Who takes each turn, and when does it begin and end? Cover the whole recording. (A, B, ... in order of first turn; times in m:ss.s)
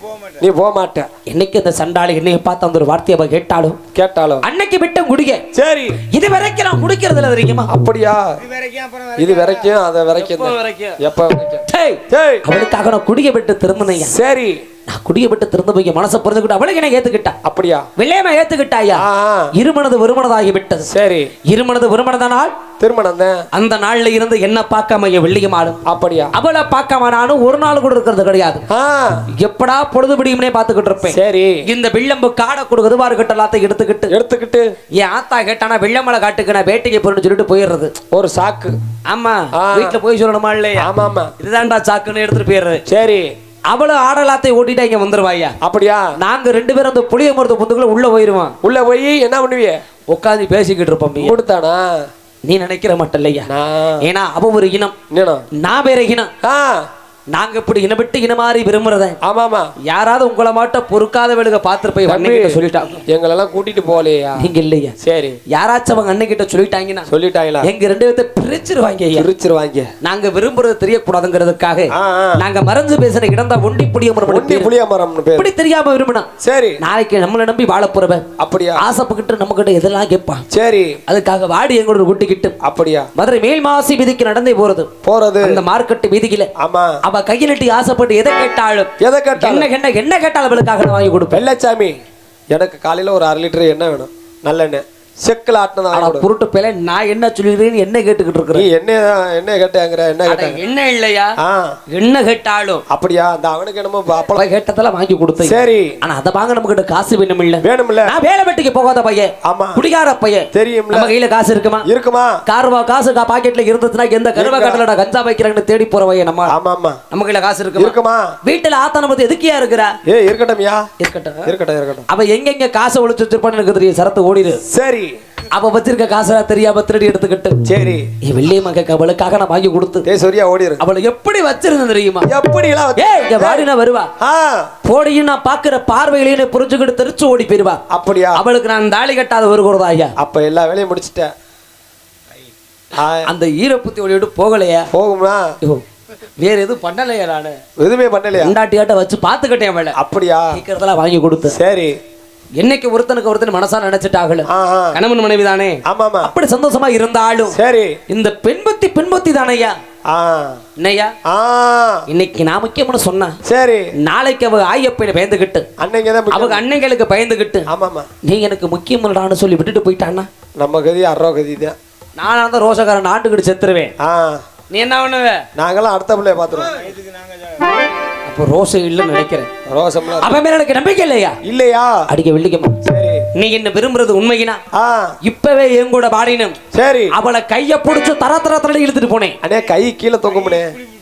0:00.4-0:01.1 A
0:01.3-0:03.8 B
0:03.9-0:04.4 A
0:04.4-0:05.4 B
0:05.5-0:06.0 A
0:06.0-0:07.7 B
0:07.7-0:08.4 A
0:09.2-0:12.4 A
0:10.2-0:11.0 B
0:11.7-0:14.1 B
0:14.0-0:14.6 A
0:14.9-0:17.4 B
0:17.4-0:17.9 A
0:18.0-0:20.9 B
0:18.9-0:19.5 A
0:20.9-0:21.3 A
0:21.5-0:22.6 B
0:22.8-0:23.4 A
0:23.5-0:25.8 B
0:25.9-0:26.3 A
0:26.3-0:28.6 B
0:28.7-0:29.2 A
0:29.4-0:34.1 B
0:31.0-0:31.6 A
0:34.1-0:34.7 A
0:34.9-0:37.9 B
0:38.1-0:38.8 A
0:39.1-0:42.8 B
0:39.6-0:40.0 A
0:40.8-0:41.3 A
0:42.9-0:43.3 A
0:43.7-0:45.6 B
0:45.6-0:46.1 A
0:46.2-0:48.6 B
0:48.6-0:49.8 A
0:50.1-0:51.4 B
0:51.2-0:52.0 A
0:52.4-0:53.5 B
0:53.5-0:54.0 A
0:54.0-0:54.9 B
0:55.1-0:55.4 A
0:55.5-0:56.3 B
0:56.4-0:56.8 A
0:57.3-0:59.2 B
0:59.2-0:59.7 A
0:59.8-1:03.0 B
1:02.0-1:04.5 A
1:04.4-1:04.9 B
1:05.0-1:05.4 A
1:05.5-1:07.1 B
1:07.1-1:07.7 A
1:07.6-1:09.3 B
1:09.1-1:09.9 A
1:10.0-1:14.7 B
1:11.9-1:12.4 A
1:14.2-1:15.5 A
1:15.4-1:16.3 B
1:16.4-1:16.8 A
1:16.8-1:18.2 B
1:18.4-1:18.8 A
1:18.8-1:20.4 B
1:20.5-1:21.0 A
1:21.1-1:22.6 B
1:22.6-1:23.1 A
1:23.1-1:24.9 B
1:25.0-1:25.6 A
1:25.4-1:26.5 B
1:26.6-1:27.0 A
1:27.0-1:31.4 B
1:29.0-1:29.7 A
1:31.3-1:32.0 A
1:32.5-1:36.3 A
1:35.9-1:38.7 B
1:38.5-1:40.6 A
1:40.2-1:41.3 B
1:41.4-1:41.8 A
1:41.9-1:42.8 B
1:42.9-1:44.4 A
1:44.3-1:51.8 B
1:45.4-1:45.9 A
1:47.6-1:48.1 A
1:49.4-1:49.8 A
1:50.5-1:51.1 A
1:51.8-1:52.4 A
1:52.4-1:56.5 B
1:54.4-1:54.8 A
1:56.5-1:57.0 A
1:57.1-2:00.0 B
1:57.8-1:58.4 A
2:00.0-2:00.8 A
2:01.0-2:01.5 B
2:01.4-2:02.0 A
2:02.1-2:04.6 B
2:04.7-2:05.1 A
2:05.5-2:07.6 B
2:07.6-2:08.1 A
2:08.2-2:10.1 B
2:10.0-2:10.8 A
2:10.8-2:12.3 B
2:12.3-2:13.7 A
2:13.0-2:14.1 B
2:14.2-2:14.7 A
2:14.8-2:17.8 B
2:17.9-2:18.4 A
2:18.3-2:20.1 B
2:20.2-2:21.3 A
2:22.9-2:23.3 A
2:23.2-2:24.9 B
2:24.9-2:25.5 A
2:26.4-2:27.6 B
2:27.8-2:28.5 A
2:28.4-2:30.0 B
2:29.9-2:30.6 A
2:30.5-2:31.6 B
2:31.5-2:32.0 A
2:32.6-2:37.6 B
2:34.5-2:35.0 A
2:35.8-2:36.3 A
2:37.5-2:38.0 A
2:38.1-2:39.8 B
2:40.1-2:40.6 A
2:40.8-2:41.1 B
2:41.2-2:42.0 A
2:42.1-2:43.4 B
2:43.4-2:43.9 A
2:44.0-2:45.6 B
2:45.8-2:46.6 A
2:46.3-2:47.7 B
2:47.7-2:48.1 A
2:48.2-2:50.3 B
2:50.6-2:51.8 A
2:52.2-2:53.9 B
2:54.0-2:54.4 A
2:54.7-2:55.4 B
2:55.6-2:56.9 A
2:58.2-2:59.5 B
2:59.6-3:00.3 A
3:00.2-3:01.4 B
3:01.4-3:02.0 A
3:02.1-3:02.8 B
3:02.8-3:03.3 A
3:03.3-3:04.6 B
3:04.7-3:05.2 A
3:05.2-3:06.6 B
3:06.7-3:07.1 A
3:07.1-3:09.4 B
3:09.4-3:10.8 A